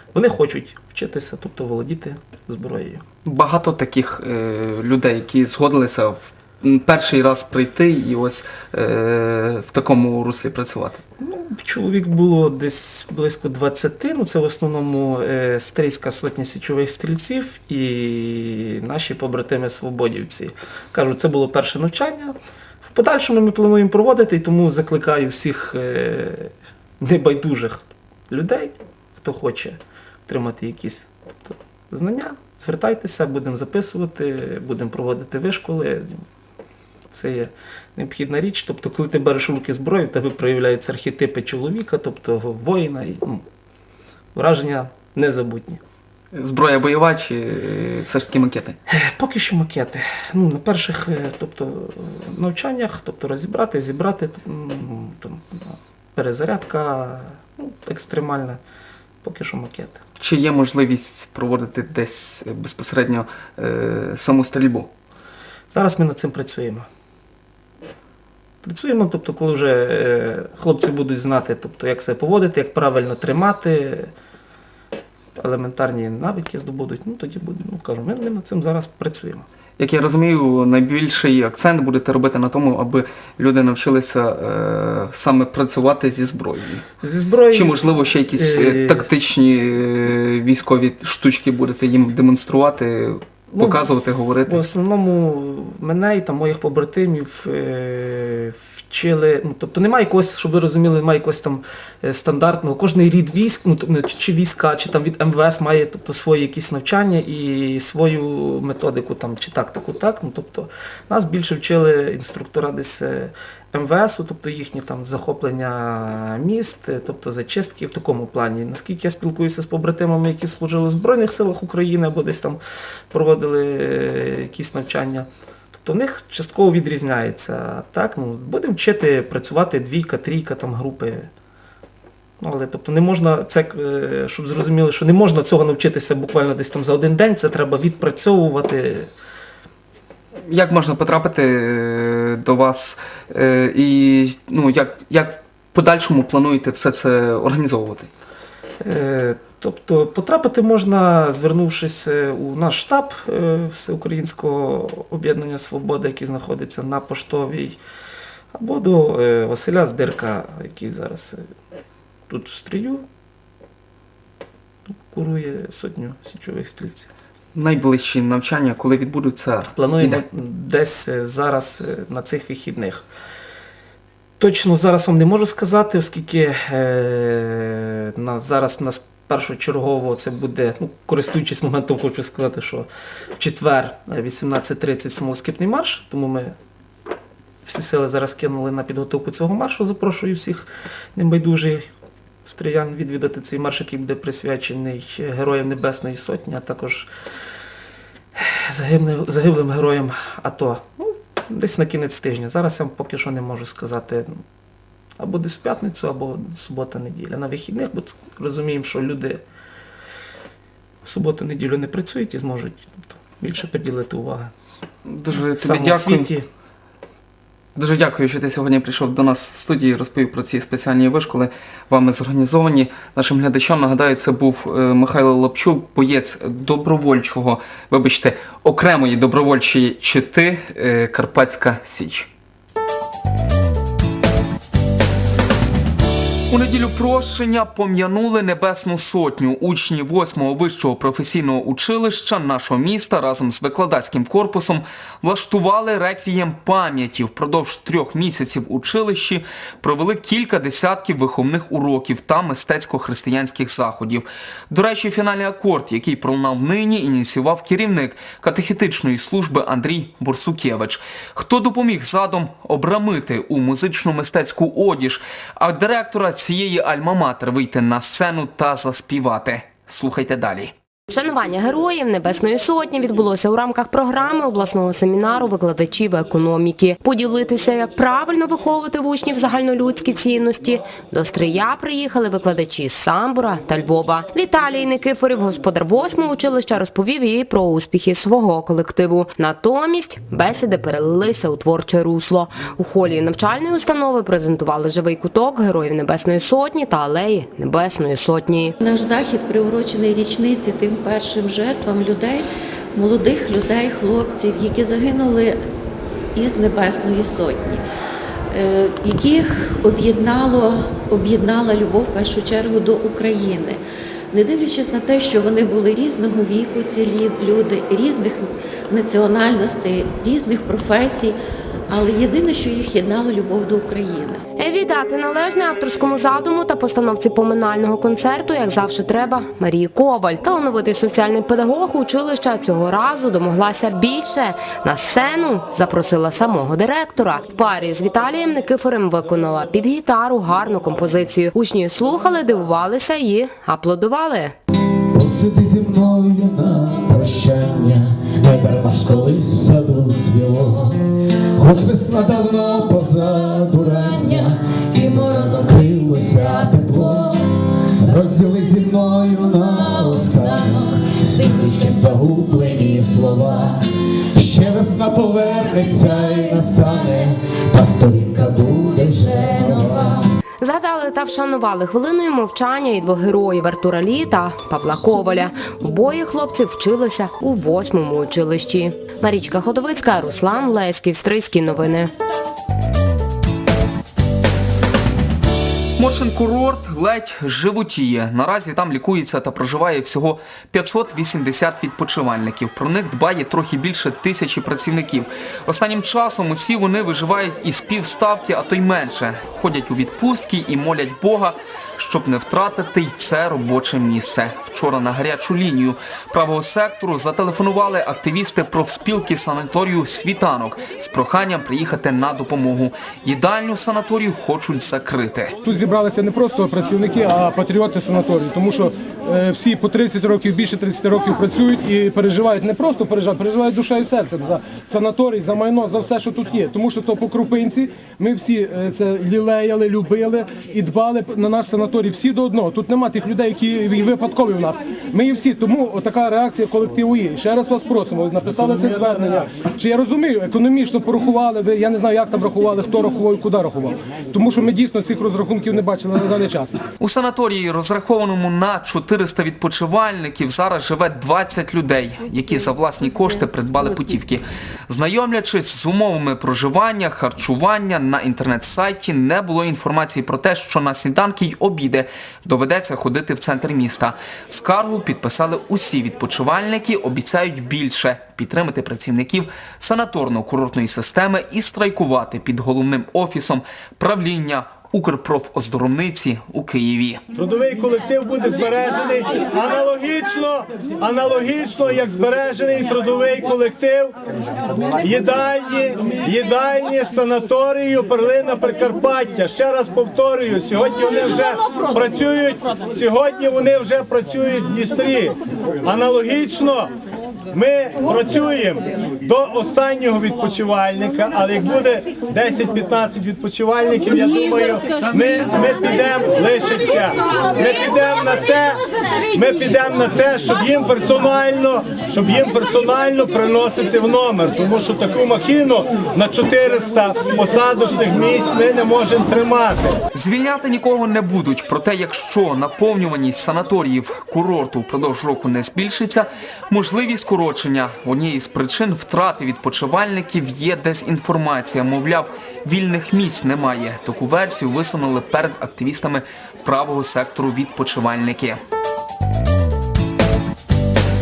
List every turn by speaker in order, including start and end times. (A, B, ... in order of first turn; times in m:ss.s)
0:00.1-0:03.0 A
0:03.2-0:11.0 B
0:11.2-0:36.2 A
0:37.1-0:43.4 A
0:44.3-0:45.8 A
0:46.3-0:48.8 B
0:48.9-0:58.6 A
0:59.2-1:00.0 A
1:00.2-1:04.9 B
1:05.7-1:06.9 A
1:08.6-1:14.1 A
1:15.4-1:19.4 A
1:19.8-1:26.9 B
1:27.0-1:29.1 A
1:27.5-1:34.7 B
1:33.5-2:02.6 A
2:03.1-2:05.3 A
2:05.8-2:11.3 A
2:12.4-2:19.1 A
2:20.5-2:28.1 B
2:28.8-2:37.8 A
2:38.5-2:41.4 A
2:42.3-2:43.0 A
2:45.1-2:47.1 A
2:47.5-2:50.2 B
2:49.7-2:53.0 A
2:54.4-3:06.5 A
3:07.6-3:11.8 A
3:12.4-3:17.1 A
3:18.4-3:24.4 A
3:25.2-3:29.4 A
3:31.0-3:34.5 A
3:35.0-3:36.3 B
3:35.3-3:36.5 A
3:37.8-3:52.3 B
3:56.5-4:30.7 B
4:31.1-4:58.7 C
4:58.8-5:05.6 D
5:06.3-5:07.8 D
5:08.5-5:21.4 D
5:21.9-5:24.4 D
5:24.6-5:44.5 C
5:45.1-5:51.0 E
5:51.6-6:10.2 E
6:10.6-6:22.1 C
6:26.0-6:55.5 B
6:55.6-7:26.8 F
7:18.4-7:19.5 G
7:27.0-7:57.2 B
7:57.3-8:04.2 G
8:04.8-8:16.9 G
8:17.5-8:28.8 G
8:29.3-8:40.0 G
8:40.1-8:58.6 B